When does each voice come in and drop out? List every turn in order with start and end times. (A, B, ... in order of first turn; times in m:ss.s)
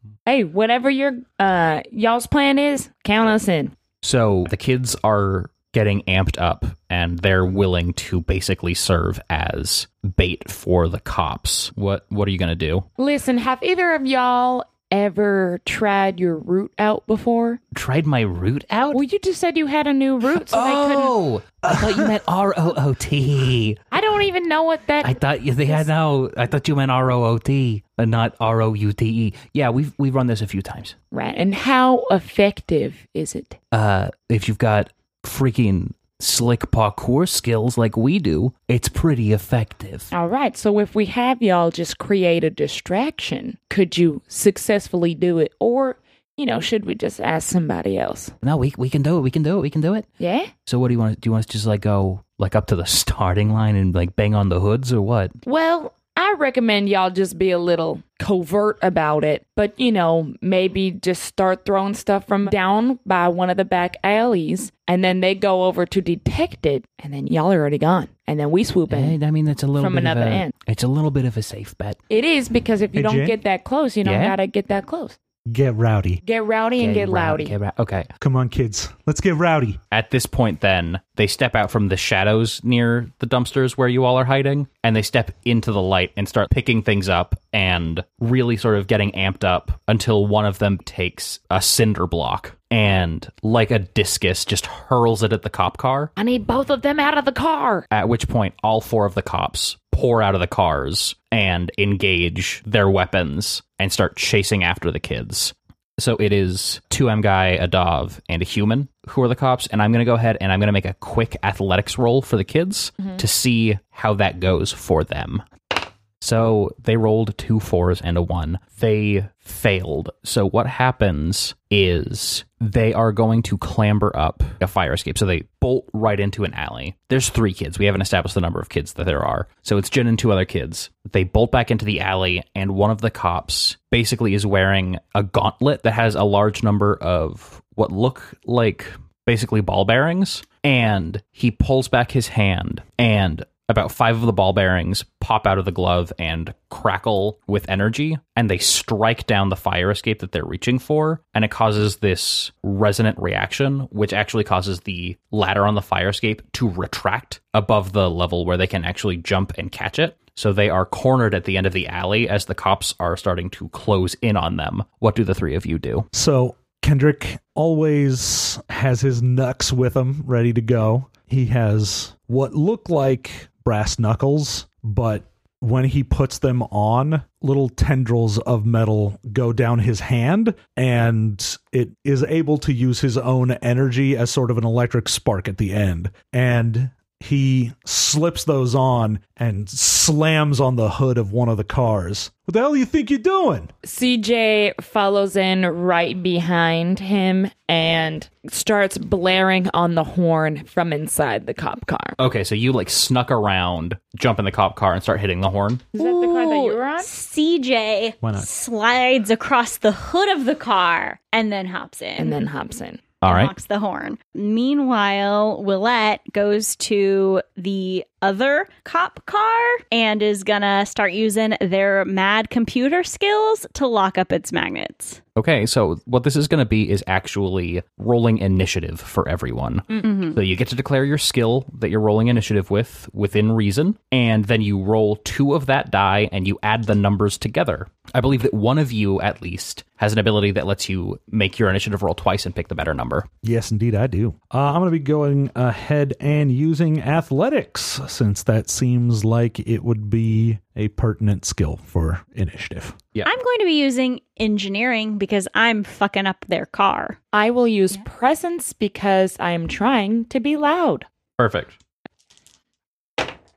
0:00.2-0:03.7 A
0:04.0-0:12.8 B
0:13.0-0:17.6 A
0:17.7-0:19.0 B
0:18.9-0:21.2 A
0:20.3-0:23.8 B
0:21.7-0:22.1 C
0:23.9-0:25.8 A
0:25.0-0:31.0 B
0:31.1-0:33.6 A
0:33.7-0:40.1 B
0:40.1-0:48.3 A
0:48.4-0:50.1 B
0:50.2-0:50.5 A
0:50.6-0:55.4 B
0:55.4-1:09.2 A
1:08.9-1:12.0 B
1:09.8-1:10.5 A
1:12.1-1:15.2 A
1:12.9-1:13.4 C
1:14.0-1:14.4 B
1:15.4-1:16.2 C
1:16.2-1:17.5 A
1:16.8-1:18.1 B
1:18.2-1:19.8 C
1:19.9-1:36.1 B
1:36.2-1:37.9 A
1:37.9-1:55.4 B
1:56.2-2:46.1 B
2:46.1-3:13.7 C
3:13.8-3:22.2 A
3:22.2-3:25.9 B
3:25.9-3:27.1 A
3:26.0-3:32.4 D
3:28.2-3:28.5 C
3:32.2-3:33.0 A
3:33.2-3:33.5 B
3:33.2-3:45.2 D
3:45.4-4:03.3 B
3:50.0-3:50.4 D
4:03.4-4:13.0 C
4:13.2-4:17.2 D
4:17.3-4:21.0 A
4:21.4-4:21.8 B